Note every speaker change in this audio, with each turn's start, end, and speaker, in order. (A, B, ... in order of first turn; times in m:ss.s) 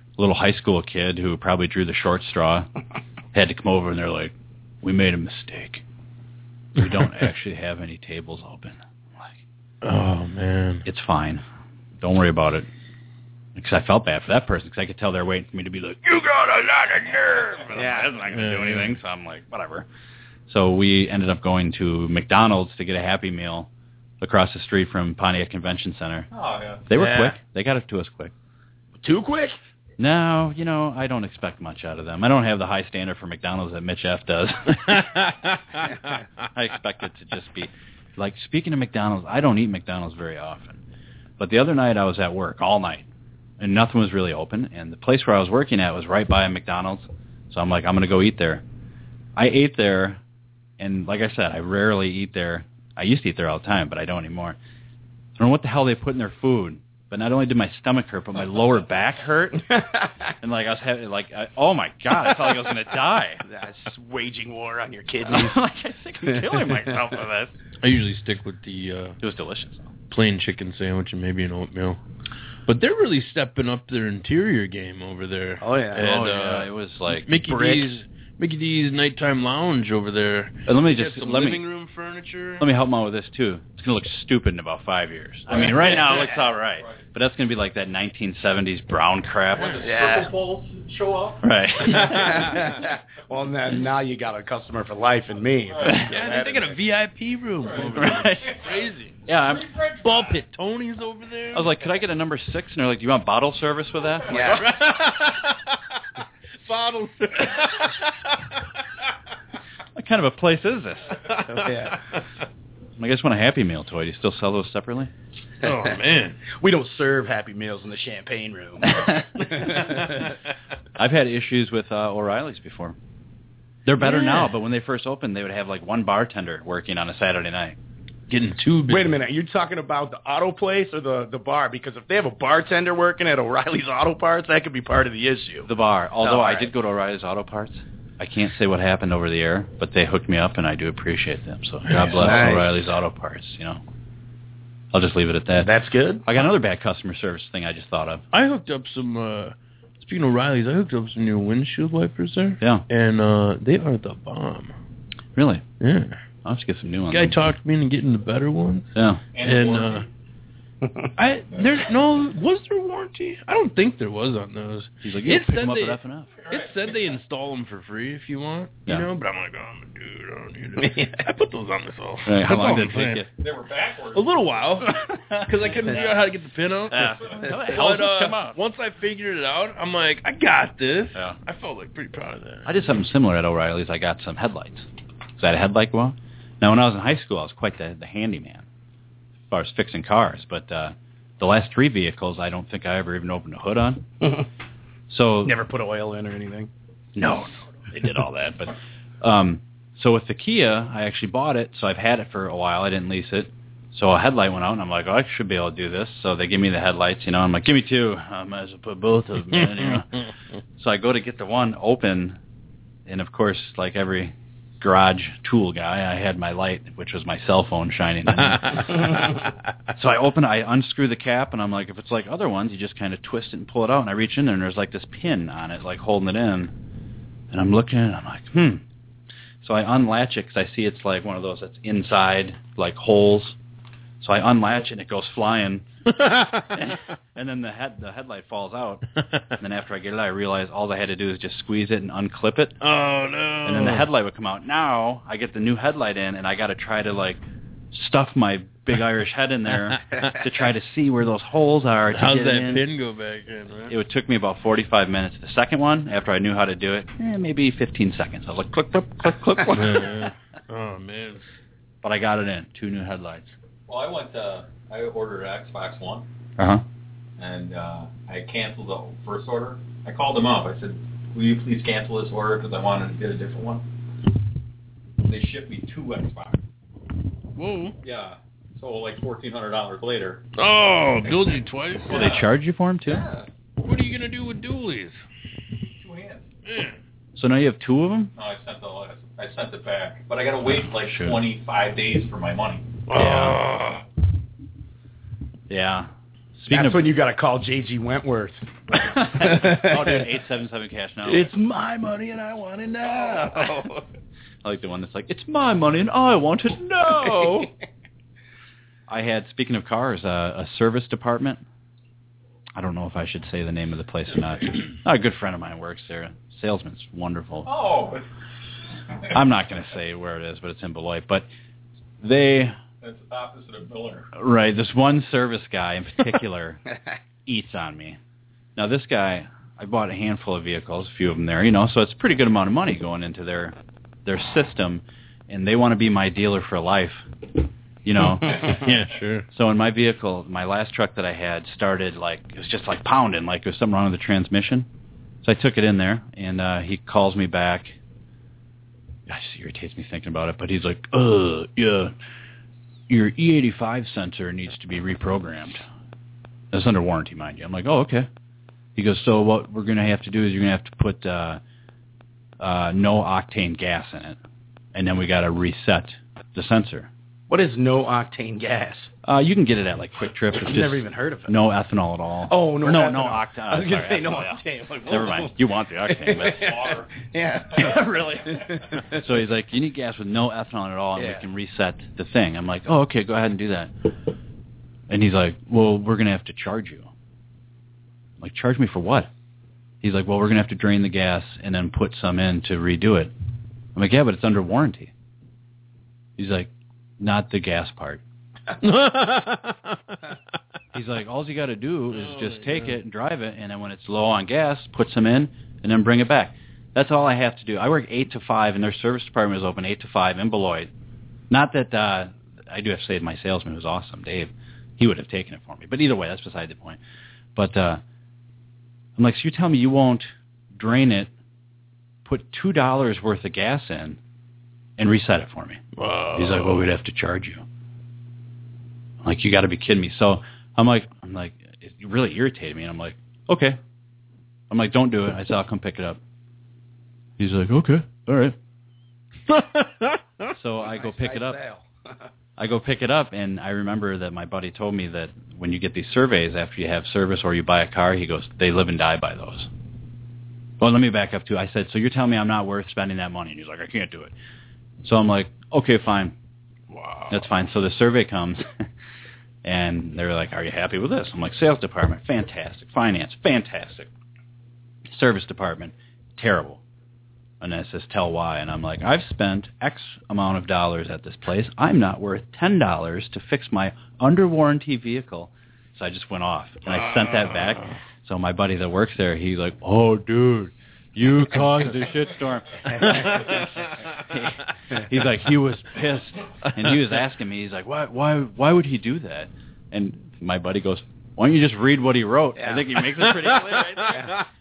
0:00.2-0:02.7 A
0:03.3-0:05.8 A
0:06.7-0:09.4 A
0:09.8-0:10.8 B
0:10.8-0:11.4 A
0:12.0-0:12.7 A
0:13.5-0:19.9 A
0:17.7-0:18.1 C
0:18.3-0:19.0 B
0:20.5-0:26.3 A
0:26.3-0:26.8 D
0:26.9-0:28.3 A
0:26.9-0:27.4 C
0:29.0-0:29.6 C
0:30.0-0:35.1 A
0:34.8-0:35.8 B
0:36.5-0:40.8 A
0:41.4-0:43.1 A
0:43.6-0:48.6 A
0:49.4-0:50.2 A
0:50.8-0:54.6 A
0:55.4-0:59.7 A
0:59.7-1:00.3 C
1:00.4-1:03.4 A
1:03.4-1:05.6 C
1:05.2-1:07.5 A
1:06.3-1:06.7 C
1:07.8-1:09.2 B
1:09.2-1:09.9 A
1:10.1-1:12.0 B
1:12.7-1:22.7 B
1:15.6-1:16.1 C
1:16.0-1:17.5 A
1:17.4-1:17.9 C
1:20.6-1:21.6 A
1:22.6-1:29.8 A
1:26.8-1:27.0 D
1:29.6-1:31.4 D
1:29.8-1:30.3 C
1:31.4-1:32.6 A
1:32.0-1:36.8 C
1:35.7-1:36.0 D
1:35.8-1:36.1 A
1:36.1-1:39.2 B
1:37.7-1:38.0 D
1:37.9-1:38.6 A
1:39.3-1:39.7 A
1:40.0-1:41.7 B
1:41.5-1:44.6 A
1:44.3-1:44.6 C
1:44.4-1:45.8 B
1:46.6-1:48.3 B
1:49.9-1:51.2 A
1:51.2-1:51.9 B
1:51.5-1:52.0 C
1:53.0-1:55.1 A
1:55.6-1:56.4 B
1:56.6-2:00.3 C
1:58.9-1:59.8 A
2:01.0-2:03.0 A
2:03.8-2:07.8 A
2:04.0-2:04.5 B
2:08.3-2:09.2 B
2:08.9-2:15.7 C
2:15.6-2:23.8 A
2:16.2-2:16.7 C
2:21.8-2:22.4 B
2:22.2-2:22.7 C
2:24.9-2:25.7 A
2:25.6-2:26.2 C
2:26.2-2:28.2 A
2:28.3-2:34.7 B
2:35.4-2:35.6 A
2:35.8-2:36.2 B
2:36.4-2:37.5 A
2:37.1-2:38.9 B
2:38.9-2:39.2 A
2:39.3-2:40.1 D
2:39.4-2:40.0 B
2:40.8-2:41.1 C
2:41.2-2:53.2 B
2:45.0-2:46.3 A
2:46.4-2:46.7 D
2:50.8-2:51.2 C
2:52.2-2:53.3 A
2:53.4-2:54.3 D
2:54.1-3:02.7 B
2:55.0-2:55.4 A
2:56.9-2:58.6 A
3:02.6-3:04.9 A
3:05.4-3:08.6 A
3:09.5-3:14.0 A
3:15.1-3:15.6 A
3:15.4-3:16.7 C
3:17.2-3:30.2 A
3:29.6-3:30.0 B
3:30.8-3:32.4 A
3:33.0-3:39.2 A
3:38.4-3:39.3 B
3:39.9-3:46.7 A
3:47.5-3:48.8 A
3:49.6-3:53.6 A
3:54.2-3:55.8 A
3:56.1-3:56.7 B
3:56.7-4:02.8 A
4:02.8-4:04.1 B
4:03.6-4:12.8 A
4:12.1-4:13.9 B
4:13.9-4:20.3 A
4:19.7-4:21.4 B
4:22.0-4:23.5 A
4:23.9-4:26.2 D
4:26.6-4:26.8 A
4:27.4-4:33.8 D
4:35.2-4:36.6 D
4:37.6-4:38.0 B
4:38.0-4:40.4 D
4:40.6-4:42.2 B
4:42.1-4:42.4 D
4:42.1-4:43.2 A
4:43.0-4:43.5 D
4:43.8-4:45.2 B
4:46.0-4:46.4 D
4:46.6-4:47.0 B
4:47.3-4:48.3 A
4:48.4-4:52.9 D
4:51.0-4:51.4 A
4:53.1-4:54.0 B
4:53.1-4:53.6 A
4:55.7-4:57.2 A
4:56.7-5:00.3 C
4:59.0-5:03.8 A
5:01.3-5:02.0 C
5:03.0-5:04.0 C
5:04.6-5:07.7 A
5:07.1-5:07.7 C
5:09.1-5:11.6 A
5:12.8-5:17.7 A
5:17.6-5:18.2 D
5:19.3-5:21.5 A
5:22.2-5:22.8 A
5:23.0-5:24.3 D
5:24.3-5:26.8 A
5:27.4-5:28.2 A
5:28.8-5:37.3 A
5:38.0-5:38.8 A
5:38.6-5:39.4 B
5:39.5-5:44.9 A
5:45.4-5:48.0 A
5:49.3-5:52.1 A
5:53.1-5:55.8 A
5:56.7-5:58.3 A
5:59.0-6:01.6 A
6:02.6-6:04.4 A
6:04.9-6:07.1 A
6:07.5-6:09.1 C
6:09.2-6:16.8 A
6:10.5-6:11.6 C
6:12.5-6:19.2 C
6:16.5-6:17.1 D
6:17.8-6:18.6 A
6:19.1-6:23.9 A
6:21.2-6:21.4 C
6:25.1-6:27.1 A
6:28.4-6:29.3 A
6:30.0-6:33.3 A
6:33.9-6:35.1 A
6:36.4-6:38.2 A
6:38.8-6:40.2 B
6:40.9-6:50.9 A
6:42.1-6:43.0 B
6:51.5-6:57.0 A
6:57.6-6:58.0 A
6:59.2-7:01.3 A
7:02.2-7:04.2 A
7:05.0-7:05.8 A
7:06.0-7:06.9 B
7:06.3-7:07.6 A
7:09.2-7:13.8 A
7:14.7-7:16.2 A
7:17.4-7:18.6 A
7:19.5-7:20.5 B
7:20.5-7:21.6 A
7:20.8-7:22.1 C
7:22.6-7:29.7 A
7:30.8-7:34.3 A
7:35.0-7:36.3 A
7:36.9-7:37.4 B
7:37.3-7:38.8 A
7:39.6-7:44.1 A
7:45.1-7:46.8 A
7:47.6-8:14.3 A
7:56.9-7:57.9 B
8:02.9-8:03.6 C
8:12.6-8:12.8 C
8:13.8-8:14.4 C